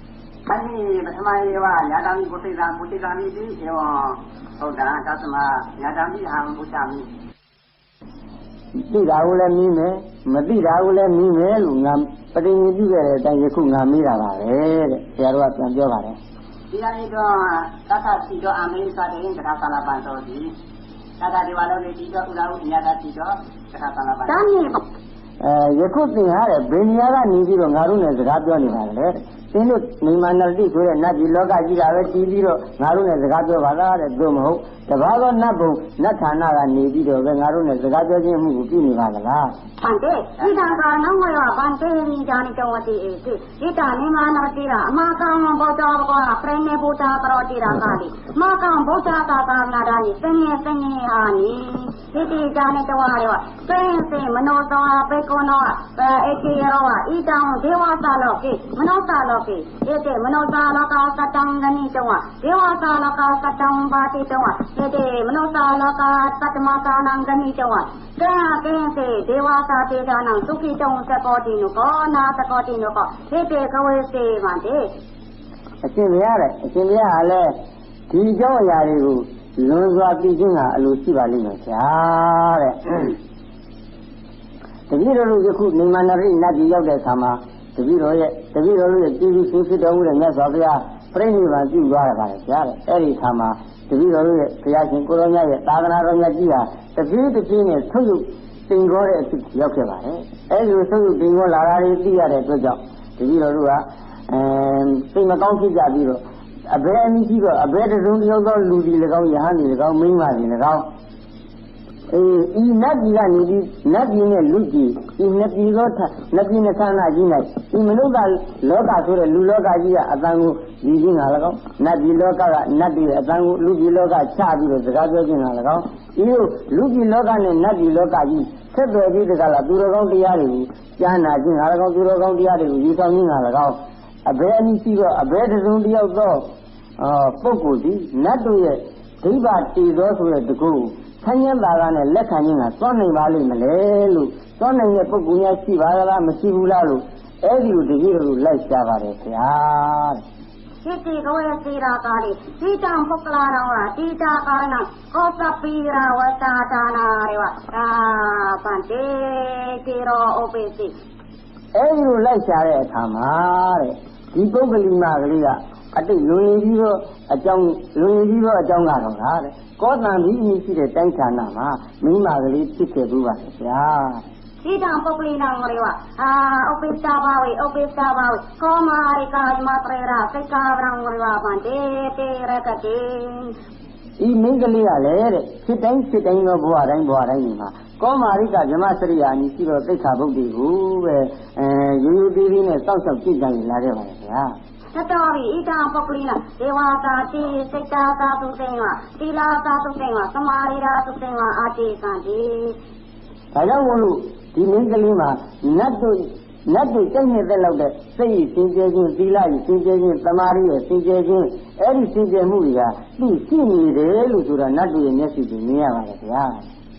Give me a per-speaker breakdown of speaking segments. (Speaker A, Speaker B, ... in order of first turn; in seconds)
Speaker A: 0.5-7.1, 16.7-20.5, 21.2-24.4
Speaker B: 8.9-16.2, 25.4-39.5, 75.8-77.5, 78.1-83.1, 84.9-110.8, 112.1-136.4, 137.0-150.2, 161.7-174.2, 184.2-194.5, 203.5-216.6
Speaker C: 24.3-24.8, 39.8-74.8, 150.8-160.9, 174.6-183.5, 194.9-202.8